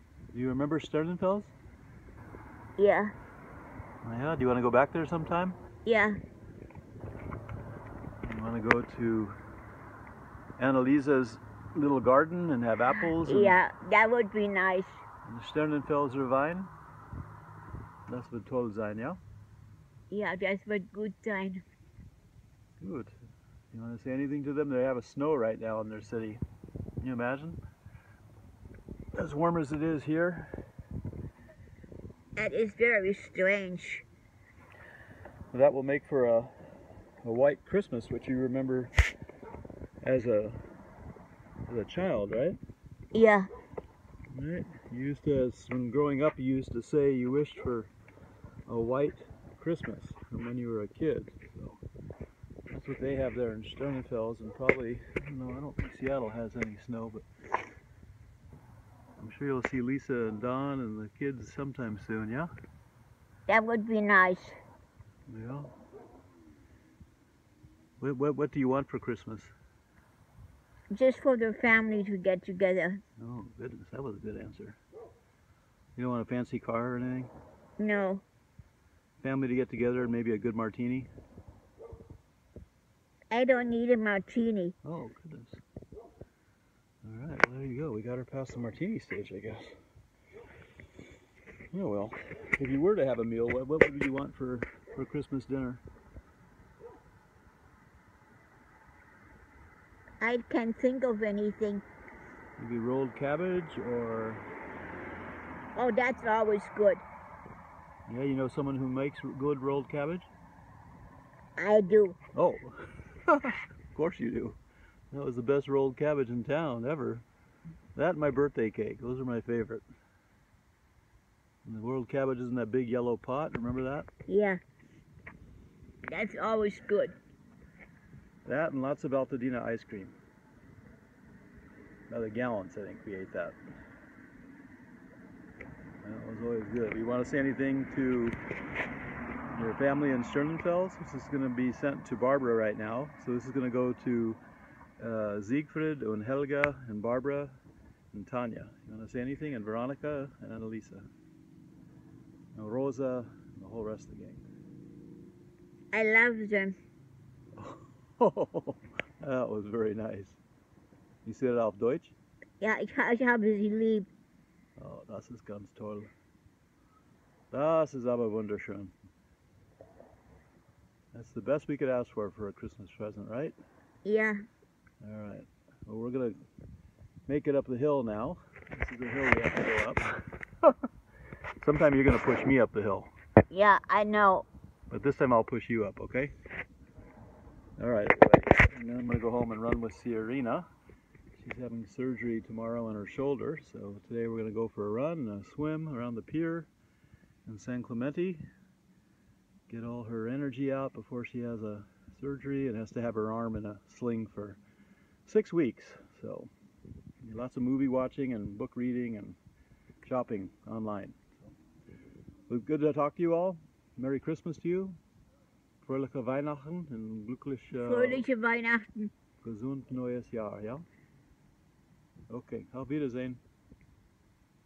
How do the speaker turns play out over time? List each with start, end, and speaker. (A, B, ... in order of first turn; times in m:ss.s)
0:00.3-0:01.5 A
0:02.8-0:03.1 B
0:04.0-0:05.6 A
0:05.8-0:06.2 B
0:08.2-0:09.4 A
0:10.6-0:13.6 A
0:13.2-0:15.0 B
0:15.2-0:16.7 A
0:18.1-0:19.2 A
0:20.1-0:21.6 B
0:22.8-0:23.1 A
0:23.7-0:26.4 A
0:27.0-0:27.6 A
0:29.1-0:30.5 A
0:32.4-0:34.0 B
0:35.5-0:36.5 A
0:37.2-0:38.9 A
0:40.0-0:40.6 A
0:41.7-0:42.6 A
0:43.1-0:43.5 B
0:44.3-0:47.9 A
0:48.7-0:51.8 A
0:52.7-0:57.3 A
0:59.2-1:02.5 A
1:03.5-1:04.6 B
1:05.3-1:05.7 A
1:08.0-1:09.5 A
1:10.9-1:13.0 B
1:13.2-1:14.8 A
1:16.0-1:17.3 A
1:17.8-1:18.2 B
1:19.2-1:21.1 A
1:23.3-1:24.8 B
1:24.8-1:25.6 A
1:27.0-1:29.8 A
1:31.7-1:35.8 A
1:40.2-1:41.8 B
1:42.6-1:44.5 A
1:45.8-1:47.0 B
1:48.1-1:50.3 A
1:51.6-1:52.2 B
1:52.4-1:54.6 A
1:55.1-1:57.2 A
1:58.0-1:59.8 A
2:01.6-2:04.1 A
2:04.3-2:04.6 B
2:06.1-2:07.2 B
2:08.4-2:10.2 A
2:12.1-2:13.6 A
2:16.0-2:18.4 A
2:19.5-2:24.4 A
2:25.0-2:27.6 A
2:28.1-2:31.1 A
2:32.6-2:34.4 A
2:35.9-2:36.8 B
2:37.6-2:40.4 A
2:41.2-2:42.2 A
2:42.6-2:44.1 B
2:44.8-2:46.1 A
2:47.5-2:48.9 A
2:51.1-2:53.6 A
2:54.0-2:54.4 B
2:55.0-2:56.4 A
2:57.3-3:00.8 A
3:01.6-3:03.1 A
3:03.5-3:04.5 B
3:04.9-3:06.3 A
3:07.8-3:10.7 A
3:11.4-3:16.7 A
3:17.5-3:18.4 A
3:19.7-3:24.6 A
3:25.3-3:26.5 A
3:27.2-3:29.4 A
3:30.0-3:31.5 A
3:32.5-3:35.0 A
3:35.8-3:38.3 A
3:37.7-3:39.1 B
3:39.4-3:40.9 A
3:42.3-3:43.4 A